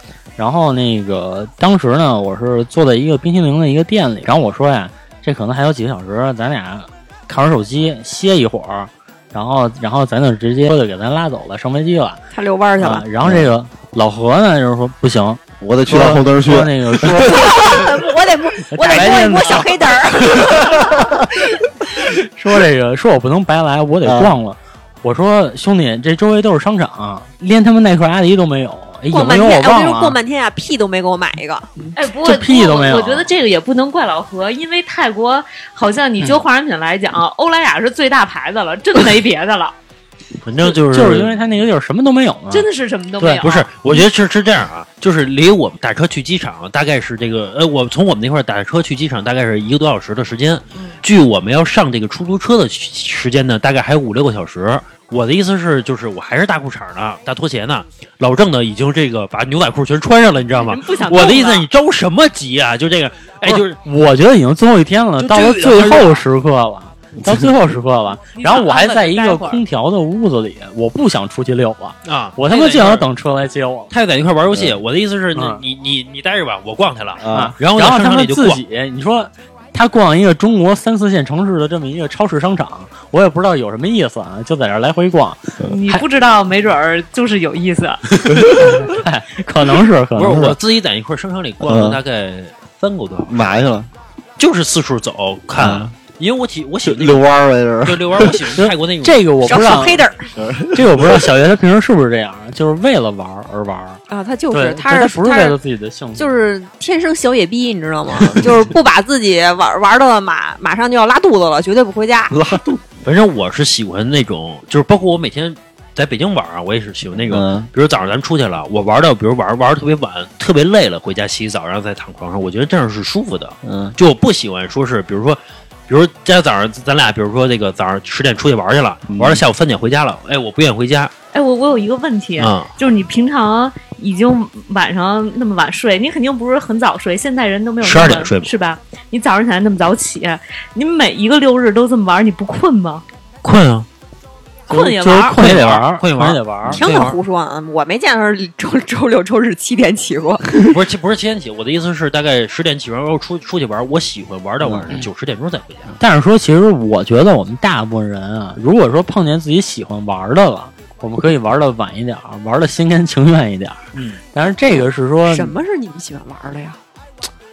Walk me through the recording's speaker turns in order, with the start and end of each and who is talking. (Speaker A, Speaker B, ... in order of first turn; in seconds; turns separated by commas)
Speaker A: 0.4-12.2, Speaker B: 12.3-13.1, Speaker A: 12.8-17.7, Speaker C: 15.6-17.8, Speaker B: 17.2-21.7, Speaker A: 18.7-20.9, Speaker A: 22.3-30.2, Speaker C: 24.0-24.3, Speaker B: 29.1-31.9, Speaker D: 31.9-39.7, Speaker A: 32.2-33.3, Speaker E: 40.4-41.4, Speaker A: 40.8-42.7, Speaker D: 42.5-44.0, Speaker A: 43.2-43.4, Speaker E: 43.4-63.8, Speaker D: 50.7-51.0, Speaker D: 60.5-61.6, Speaker A: 63.4-73.9, Speaker E: 65.2-66.2, Speaker D: 68.3-69.6, Speaker E: 72.0-73.1, Speaker E: 73.9-78.6, Speaker A: 75.3-75.6, Speaker C: 77.2-77.5, Speaker A: 77.3-86.0, Speaker D: 85.6-88.0, Speaker A: 88.5-90.5, Speaker E: 90.2-93.6, Speaker C: 91.6-92.0, Speaker C: 93.3-93.9, Speaker E: 94.4-97.2, Speaker C: 95.6-95.9, Speaker C: 96.8-98.4, Speaker E: 97.8-99.9, Speaker A: 98.5-100.0, Speaker B: 99.5-100.3, Speaker C: 100.3-101.3, Speaker A: 100.7-106.4, Speaker B: 104.1-105.6, Speaker B: 106.2-112.6, Speaker C: 112.3-112.8, Speaker E: 113.0-131.1, Speaker C: 117.3-117.7, Speaker C: 123.6-123.9, Speaker C: 129.1-129.4, Speaker D: 131.3-143.0, Speaker E: 132.4-132.7, Speaker E: 137.8-138.5, Speaker E: 143.4-143.9, Speaker D: 144.7-145.4, Speaker A: 144.7-146.8, Speaker E: 145.3-147.2, Speaker B: 146.7-150.8, Speaker E: 150.7-155.9, Speaker C: 154.6-154.9, Speaker A: 156.0-165.5, Speaker E: 163.9-164.2, Speaker B: 164.8-166.8